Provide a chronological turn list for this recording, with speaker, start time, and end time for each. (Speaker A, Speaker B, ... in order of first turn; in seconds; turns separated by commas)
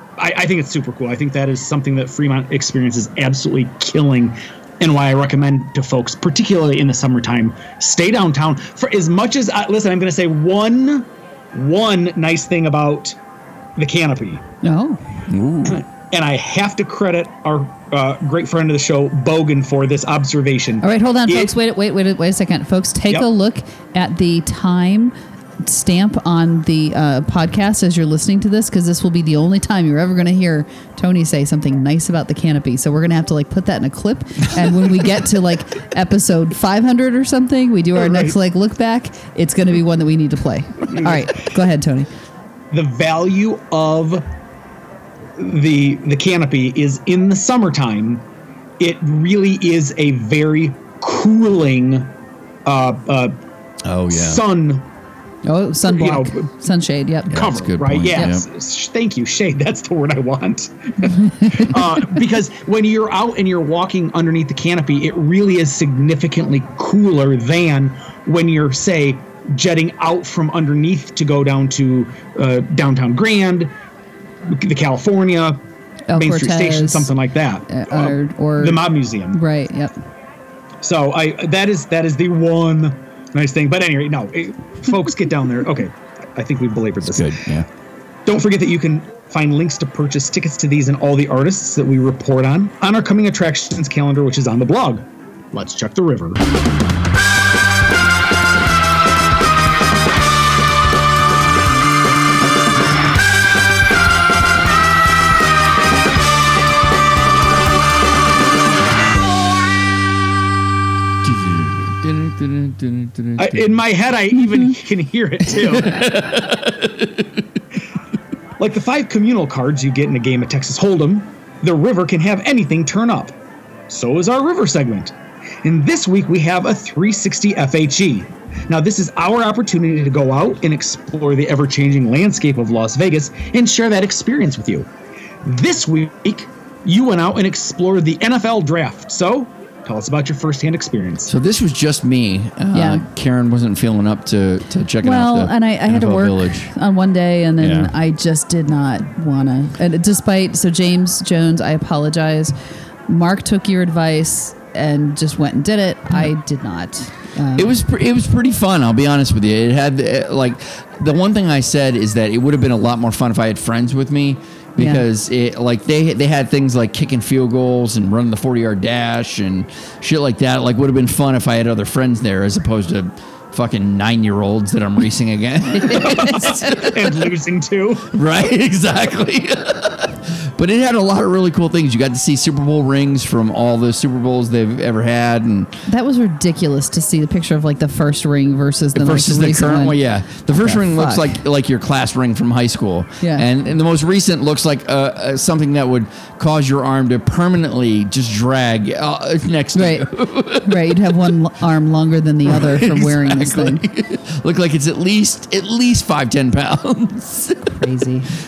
Speaker A: 0.2-13.2, Speaker A: 13.8-14.4, Speaker B: 14.6-15.0, Speaker C: 15.3-15.8, Speaker A: 15.7-21.5, Speaker B: 20.8-42.1, Speaker A: 38.0-38.3, Speaker A: 41.0-41.2, Speaker A: 42.7-44.2, Speaker A: 45.4-48.2, Speaker A: 48.8-52.1, Speaker A: 52.6-53.4, Speaker C: 53.8-54.4, Speaker A: 54.1-54.8, Speaker B: 55.5-57.4, Speaker A: 55.8-56.5, Speaker C: 57.3-58.4, Speaker A: 57.3-73.7, Speaker A: 74.5-75.6, Speaker B: 76.1-77.1, Speaker A: 76.1-79.4, Speaker B: 77.7-79.9, Speaker A: 80.8-87.3, Speaker C: 87.0-87.7, Speaker A: 88.2-96.4, Speaker C: 111.2-113.8, Speaker A: 113.4-116.1, Speaker C: 115.5-117.4, Speaker A: 118.6-123.3, Speaker A: 123.9-125.1, Speaker A: 125.6-134.9, Speaker A: 135.4-141.3, Speaker C: 141.3-146.7, Speaker B: 142.7-143.0, Speaker B: 145.0-152.5, Speaker C: 147.6-147.9, Speaker B: 153.1-157.8, Speaker C: 157.5-177.1, Speaker B: 164.8-165.0, Speaker B: 175.8-176.5, Speaker A: 175.9-178.1, Speaker C: 178.1-185.7, Speaker B: 185.9-190.0, Speaker C: 188.9-201.2, Speaker B: 190.5-191.4, Speaker B: 193.2-193.5, Speaker B: 199.7-200.1, Speaker B: 200.6-203.8, Speaker C: 202.4-207.7, Speaker B: 207.6-208.3